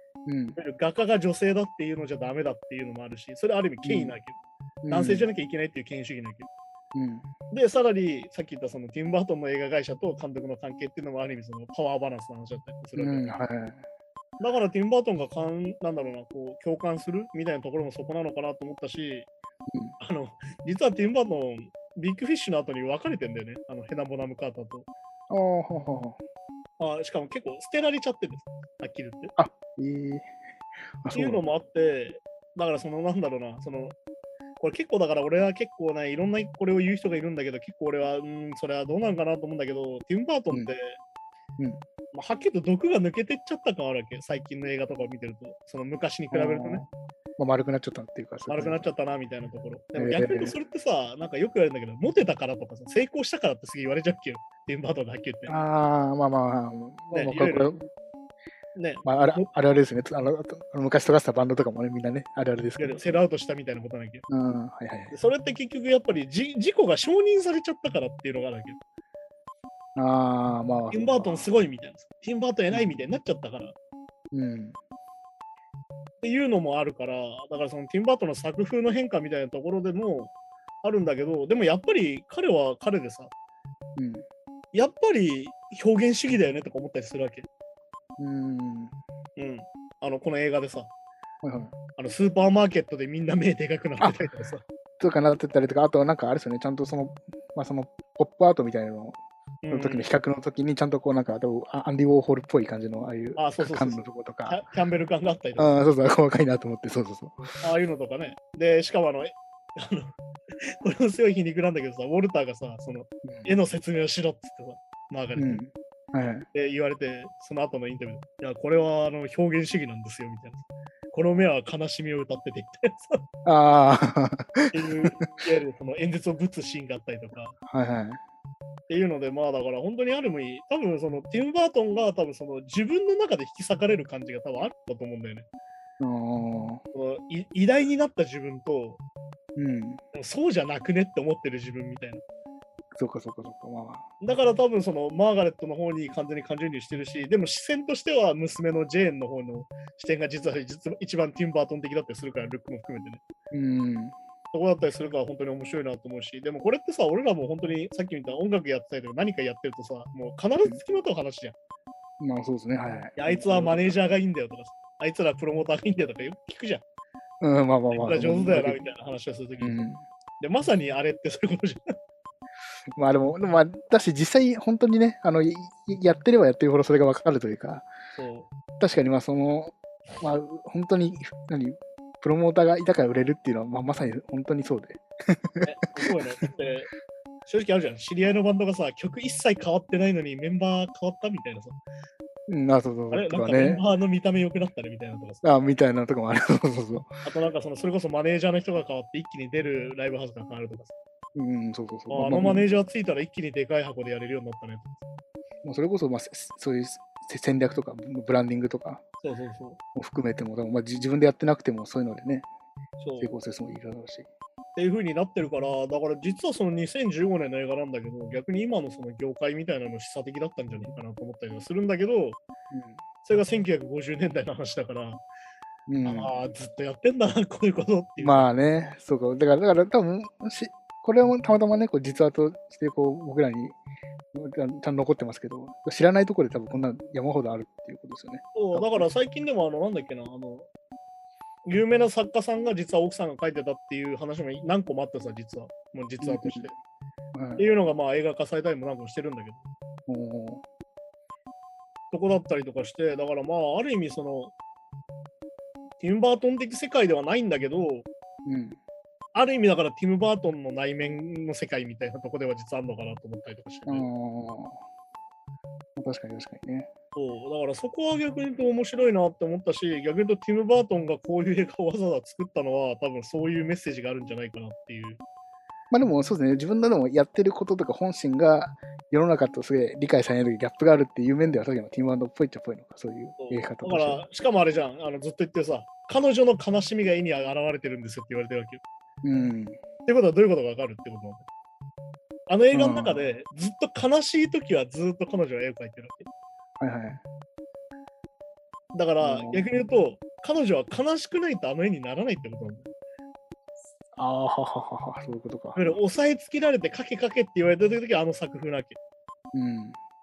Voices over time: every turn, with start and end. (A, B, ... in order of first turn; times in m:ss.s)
0:00.2-0:00.6 A
0:00.6-0:04.4 B
0:03.8-0:04.2 A
0:04.8-0:05.3 A
0:04.9-0:06.5 B
0:06.9-0:07.3 A
0:07.5-0:13.3 B
0:13.0-0:13.8 A
0:14.4-0:19.3 B
0:19.7-0:20.0 A
0:20.0-0:24.8 B
0:25.3-0:26.2 A
0:26.8-0:29.3 B
0:29.4-0:30.3 A
0:31.0-0:31.4 A
0:31.1-0:33.9 B
0:34.6-0:41.0 B
0:42.1-0:46.8 B
0:46.3-0:48.9 A
0:48.5-0:55.6 B
0:50.0-0:50.6 A
0:55.5-0:57.8 A
0:57.1-0:57.8 B
0:58.7-0:59.5 B
0:59.0-1:03.1 A
1:02.8-1:04.2 B
1:04.3-1:05.1 A
1:05.1-1:08.8 B
1:10.0-1:11.5 A
1:10.9-1:13.7 B
1:12.7-1:13.0 A
1:14.3-1:14.8 A
1:16.2-1:20.3 B
1:20.8-1:23.3 B
1:24.0-1:24.2 A
1:24.7-1:27.5 B
1:28.2-1:28.9 A
1:29.4-1:30.9 B
1:31.4-1:31.7 A
1:32.0-1:34.6 B
1:35.0-1:39.2 A
1:39.6-1:40.1 B
1:39.7-1:44.6 A
1:43.4-1:45.7 B
1:45.6-1:47.5 A
1:47.6-1:50.1 B
1:50.8-1:55.6 B
1:53.2-1:53.5 A
1:55.4-1:56.5 A
1:56.5-2:03.2 B
2:03.4-2:05.1 A
2:04.7-2:07.6 B
2:07.7-2:08.2 A
2:08.9-2:15.5 B
2:16.0-2:16.8 A
2:16.9-2:19.0 B
2:19.6-2:20.0 A
2:20.1-2:22.2 B
2:22.9-2:24.0 A
2:24.2-2:33.2 B
2:33.5-2:34.2 A
2:34.5-2:41.5 B
2:42.2-2:44.0 A
2:43.2-2:46.8 B
2:47.4-2:48.8 A
2:47.9-2:49.8 B
2:49.6-2:50.0 A
2:50.4-2:51.9 B
2:52.9-2:57.9 A
2:58.2-2:58.5 B
2:58.8-3:06.1 A
3:05.6-3:06.9 B
3:07.4-3:11.8 B
3:12.5-3:13.8 A
3:13.1-3:15.4 B
3:15.4-3:17.1 A
3:17.2-3:20.9 B
3:21.3-3:22.6 A
3:22.1-3:25.0 B
3:25.6-3:29.0 A
3:29.2-3:29.8 B
3:29.9-3:32.5 A
3:33.0-3:33.3 B
3:33.2-3:34.3 A
3:34.8-3:42.4 B
3:42.7-3:43.0 A
3:43.2-3:45.2 B
3:45.9-3:46.3 A
3:46.0-3:48.5 B
3:48.2-3:53.8 A
3:54.3-3:59.1 A
3:58.5-4:00.7 B
4:01.6-4:06.7 B
4:06.2-4:06.7 A
4:07.3-4:07.6 A
4:07.6-4:09.6 B
4:10.1-4:10.6 A
4:12.1-4:14.5 B
4:16.0-4:18.1 B
4:18.4-4:18.8 A
4:19.3-4:24.1 B
4:23.9-4:24.8 A
4:26.0-4:26.9 A
4:27.1-4:35.2 B
4:35.9-4:44.2 A
4:43.4-4:48.8 B
4:49.2-4:49.8 A
4:50.0-4:51.4 B
4:52.5-4:56.3 B
4:52.7-4:53.2 A
4:56.8-4:57.2 A
4:58.9-5:02.9 B
4:59.2-4:59.7 A
5:04.2-5:06.0 A
5:05.7-5:09.0 B
5:09.5-5:10.0 A